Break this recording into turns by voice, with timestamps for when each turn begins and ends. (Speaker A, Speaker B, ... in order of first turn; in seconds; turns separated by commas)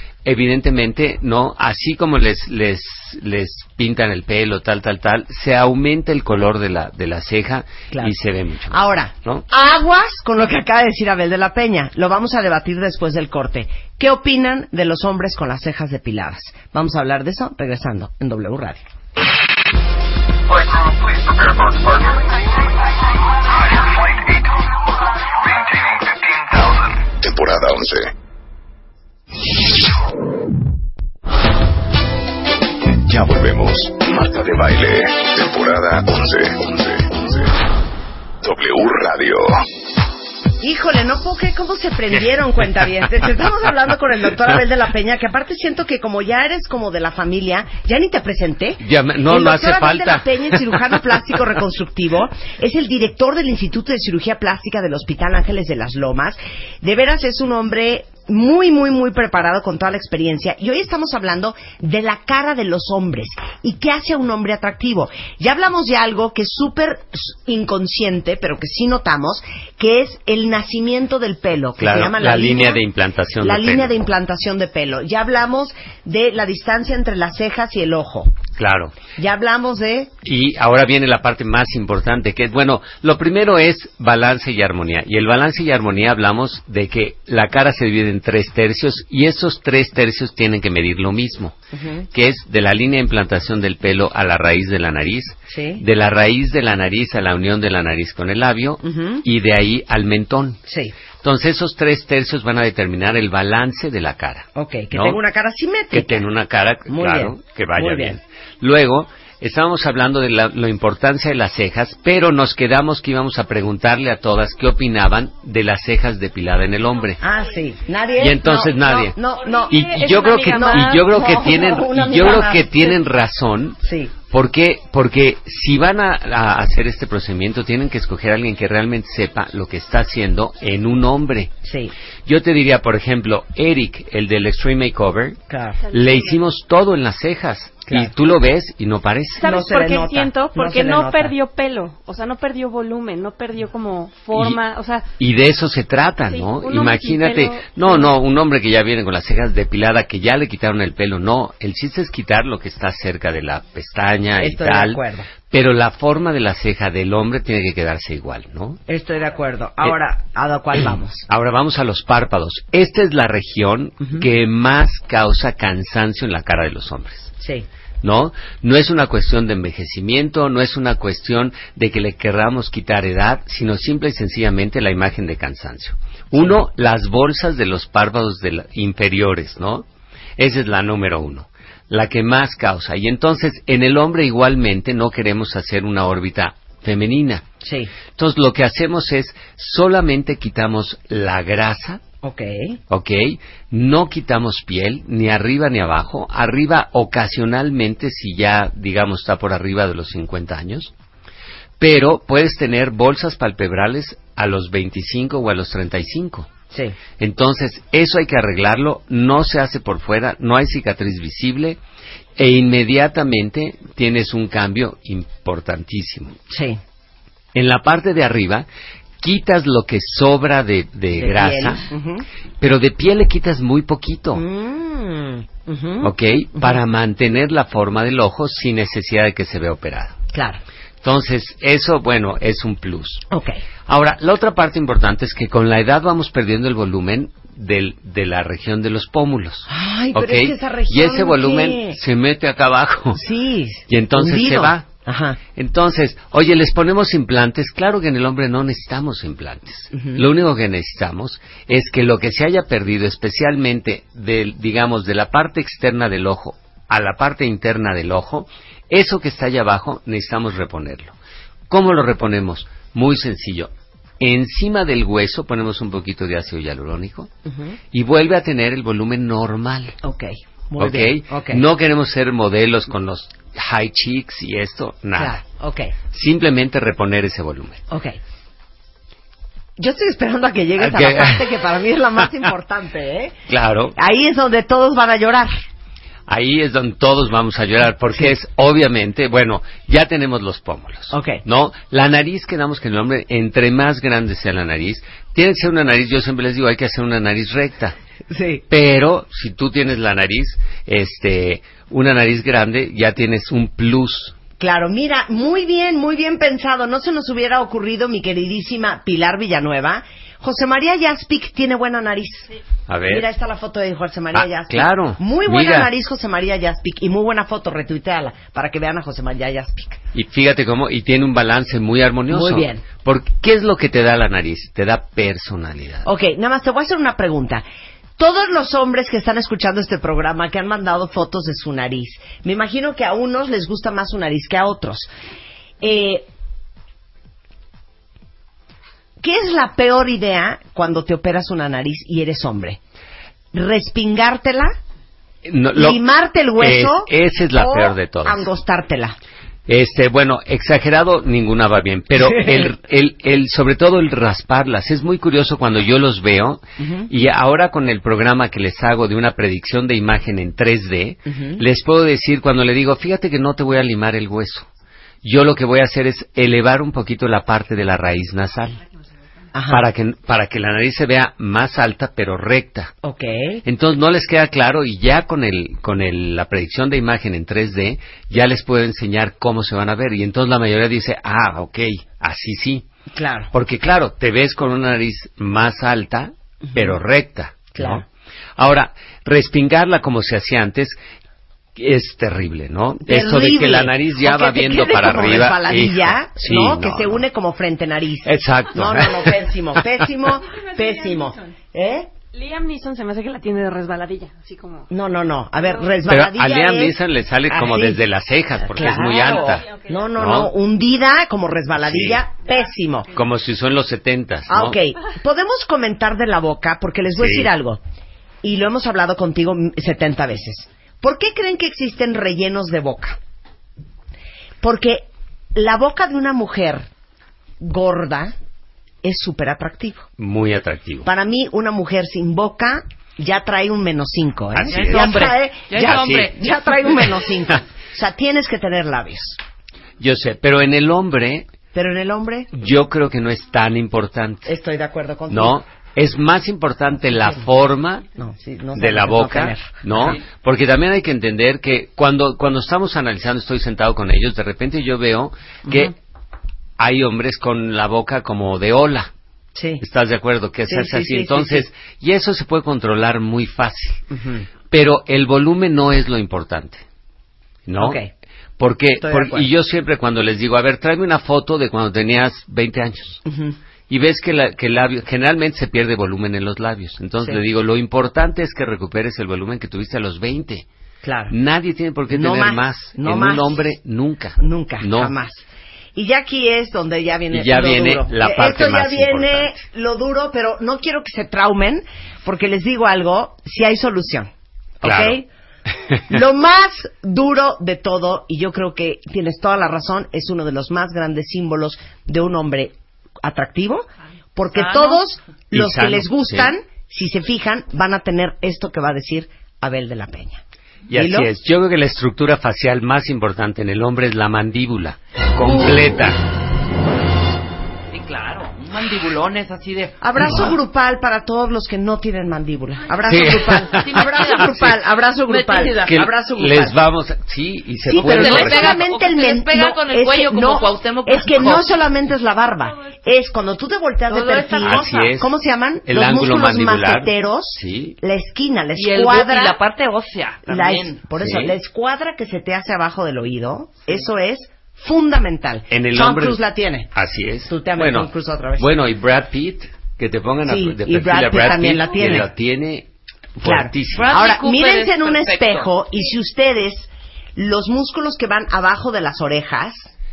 Speaker A: 0.2-9.4, Speaker B: 8.7-18.8, Speaker C: 20.6-22.2, Speaker C: 26.3-28.1, Speaker C: 32.8-37.5, Speaker C: 38.4-39.6, Speaker B: 40.6-72.8, Speaker A: 48.8-50.8, Speaker A: 71.8-74.0, Speaker B: 73.4-78.4, Speaker A: 78.6-79.0, Speaker B: 79.2-80.1, Speaker A: 80.2-91.5, Speaker B: 91.7-92.1, Speaker A: 92.1-100.6, Speaker B: 95.5-95.8, Speaker B: 98.8-99.2, Speaker B: 100.7-101.0, Speaker A: 101.2-105.2, Speaker B: 104.6-106.2, Speaker A: 105.9-117.2, Speaker B: 106.9-108.2, Speaker B: 117.2-119.9, Speaker A: 118.2-131.5, Speaker D: 119.4-121.2, Speaker B: 120.4-123.0, Speaker B: 123.8-124.1, Speaker B: 131.7-131.9, Speaker A: 132.3-135.4, Speaker B: 135.5-135.8, Speaker A: 135.9-139.5, Speaker D: 135.9-136.4, Speaker D: 139.4-145.1, Speaker B: 139.4-141.3, Speaker A: 144.3-144.6, Speaker A: 145.2-158.8, Speaker D: 146.3-148.1, Speaker B: 154.4-155.3, Speaker B: 158.9-161.3, Speaker A: 161.3-167.3, Speaker B: 167.4-167.7, Speaker A: 168.0-179.8, Speaker A: 180.4-187.4, Speaker B: 187.6-187.9, Speaker A: 188.2-192.0, Speaker B: 192.2-192.8, Speaker A: 192.9-200.9, Speaker A: 201.8-206.5, Speaker B: 206.7-207.0, Speaker A: 207.2-211.8, Speaker A: 212.4-216.4, Speaker B: 216.5-216.8, Speaker A: 217.6-218.7, Speaker A: 219.2-221.8, Speaker B: 221.2-222.3, Speaker A: 222.6-224.4, Speaker B: 224.3-226.8, Speaker A: 226.0-230.2, Speaker B: 230.3-230.6, Speaker A: 231.0-233.2, Speaker B: 233.3-233.6, Speaker A: 233.9-243.2, Speaker B: 239.7-242.0, Speaker B: 243.2-245.4, Speaker A: 243.9-244.9, Speaker A: 245.6-261.1, Speaker B: 249.9-250.2, Speaker A: 261.7-267.3, Speaker B: 267.5-267.8, Speaker A: 267.9-270.0, Speaker B: 270.0-271.6, Speaker A: 270.8-275.4, Speaker B: 275.2-275.9, Speaker A: 276.1-277.8, Speaker B: 277.9-278.2, Speaker B: 279.8-283.4, Speaker A: 280.8-281.5, Speaker A: 283.5-283.9, Speaker B: 284.0-285.5, Speaker A: 286.3-298.0, Speaker B: 291.1-291.4, Speaker B: 298.3-298.6, Speaker A: 298.7-304.4, Speaker B: 304.6-312.5, Speaker A: 312.9-313.3, Speaker B: 313.1-320.0, Speaker A: 314.3-315.9, Speaker A: 320.1-326.1, Speaker B: 322.3-322.9, Speaker B: 326.1-327.6, Speaker B: 328.2-335.1, Speaker B: 335.8-336.3, Speaker B: 339.2-342.8, Speaker B: 343.5-344.7, Speaker A: 345.4-346.0, Speaker B: 345.8-349.2, Speaker A: 346.6-348.5, Speaker A: 349.7-364.7, Speaker B: 352.2-352.7, Speaker B: 356.8-357.1, Speaker B: 361.3-361.6, Speaker A: 365.2-368.8, Speaker B: 369.5-369.9, Speaker A: 369.7-372.9, Speaker B: 373.0-373.6, Speaker A: 373.6-382.9, Speaker B: 383.1-383.5, Speaker A: 383.5-388.1, Speaker B: 386.7-387.0, Speaker B: 387.8-388.0, Speaker A: 388.6-391.0, Speaker A: 391.8-397.2, Speaker B: 393.1-402.1, Speaker A: 398.2-399.5, Speaker D: 402.3-404.9, Speaker B: 404.9-407.0, Speaker A: 406.1-410.5, Speaker B: 407.5-408.0, Speaker B: 408.7-413.1, Speaker D: 409.0-409.9, Speaker A: 411.8-412.2, Speaker A: 413.1-414.8, Speaker B: 414.5-417.8, Speaker A: 417.1-417.5, Speaker B: 418.4-423.2, Speaker B: 424.6-426.9, Speaker B: 427.6-428.3, Speaker B: 429.0-430.1, Speaker A: 430.2-431.1, Speaker B: 431.1-439.4, Speaker A: 434.5-436.3, Speaker E: 434.7-436.4, Speaker A: 440.0-441.5, Speaker B: 441.7-442.5, Speaker A: 442.5-444.5, Speaker B: 444.5-445.6, Speaker A: 445.3-448.1, Speaker B: 448.2-450.2, Speaker A: 448.8-455.9, Speaker B: 455.7-455.9, Speaker A: 456.8-459.1, Speaker B: 459.6-459.8, Speaker A: 459.8-464.0, Speaker B: 460.7-461.7, Speaker B: 464.1-464.5, Speaker A: 464.7-466.8, Speaker A: 467.7-468.0, Speaker B: 467.8-468.1, Speaker A: 468.6-473.2, Speaker B: 469.0-469.5, Speaker B: 473.3-473.6, Speaker A: 473.9-480.7, Speaker B: 481.0-481.3, Speaker A: 481.3-485.1, Speaker B: 482.1-483.6, Speaker B: 484.4-495.3, Speaker A: 487.3-489.6, Speaker A: 494.8-495.2, Speaker A: 495.9-496.1, Speaker B: 496.1-510.4, Speaker E: 504.5-505.0, Speaker A: 505.5-506.5, Speaker A: 510.9-516.2, Speaker B: 510.9-511.3, Speaker E: 517.9-520.4, Speaker B: 520.0-526.8, Speaker A: 520.2-520.5, Speaker A: 523.1-524.8, Speaker E: 523.8-524.6, Speaker E: 525.3-526.0, Speaker A: 525.9-528.8, Speaker B: 527.9-539.6, Speaker E: 528.0-531.7, Speaker E: 534.1-535.1, Speaker A: 534.6-535.3, Speaker A: 535.9-538.0, Speaker E: 538.8-541.0, Speaker B: 540.5-546.9, Speaker A: 541.2-541.6, Speaker A: 545.7-546.4, Speaker A: 546.9-554.2, Speaker B: 547.5-548.7, Speaker B: 550.5-552.3, Speaker B: 553.4-559.9, Speaker E: 553.9-555.7